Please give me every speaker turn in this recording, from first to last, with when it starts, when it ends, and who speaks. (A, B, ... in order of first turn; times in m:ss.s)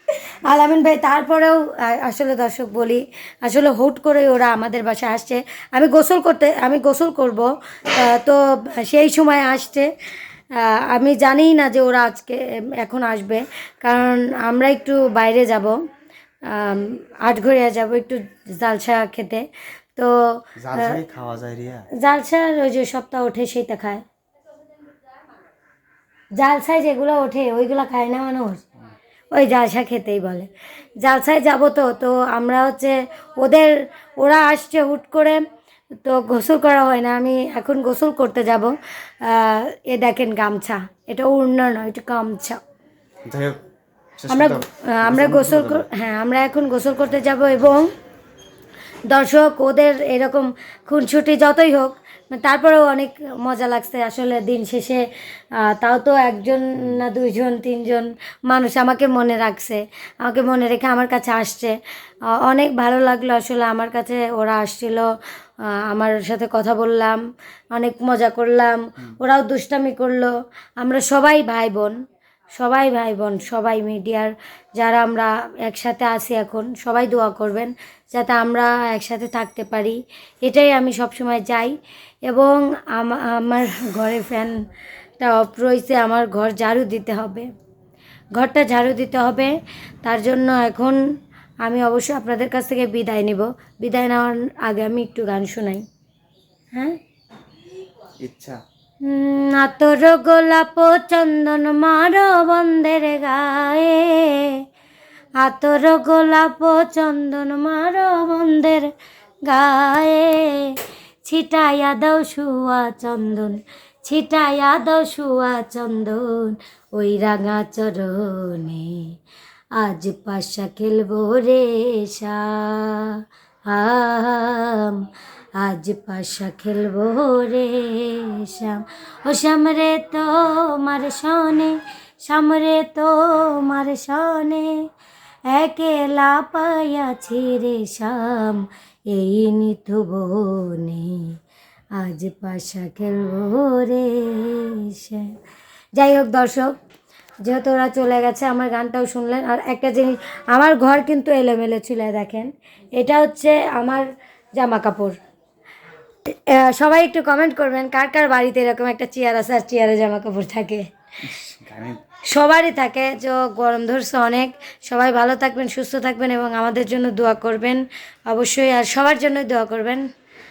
0:00.4-0:09.9 A
0:10.6-0:15.8 A
0:16.5-0:19.4 A
0:20.6-0:21.9 B
0:22.0-0:24.0 A
0:26.4-0:28.6 A
0:29.3-0:30.5 A
0:31.0-0:35.4 A
0:36.0-0:38.7 A
0:39.2-0:42.6 A
0:43.3-0:43.6 B
0:44.2-0:45.9 B
0:44.3-0:47.9 A
0:49.1-0:55.0 A
0:55.6-1:01.8 A
1:02.4-1:05.1 A
1:05.8-1:07.2 A
1:07.7-1:11.9 A
1:12.6-1:21.7 A
1:22.3-1:24.5 A
1:25.2-1:27.5 A
1:28.4-1:29.5 A
1:30.0-1:31.0 A
1:31.6-1:35.8 A
1:38.2-1:38.6 B
1:39.0-1:44.5 A
1:45.4-1:48.9 A
1:49.5-1:50.7 A
1:51.2-1:59.1 A
1:59.8-2:05.0 A
2:05.6-2:14.7 A
2:15.5-2:21.3 A
2:22.0-2:25.3 A
2:26.0-2:26.7 A
2:27.4-2:34.0 A
2:34.6-2:35.2 A
2:36.3-2:40.8 A
2:41.2-2:42.0 B
2:42.3-2:50.0 A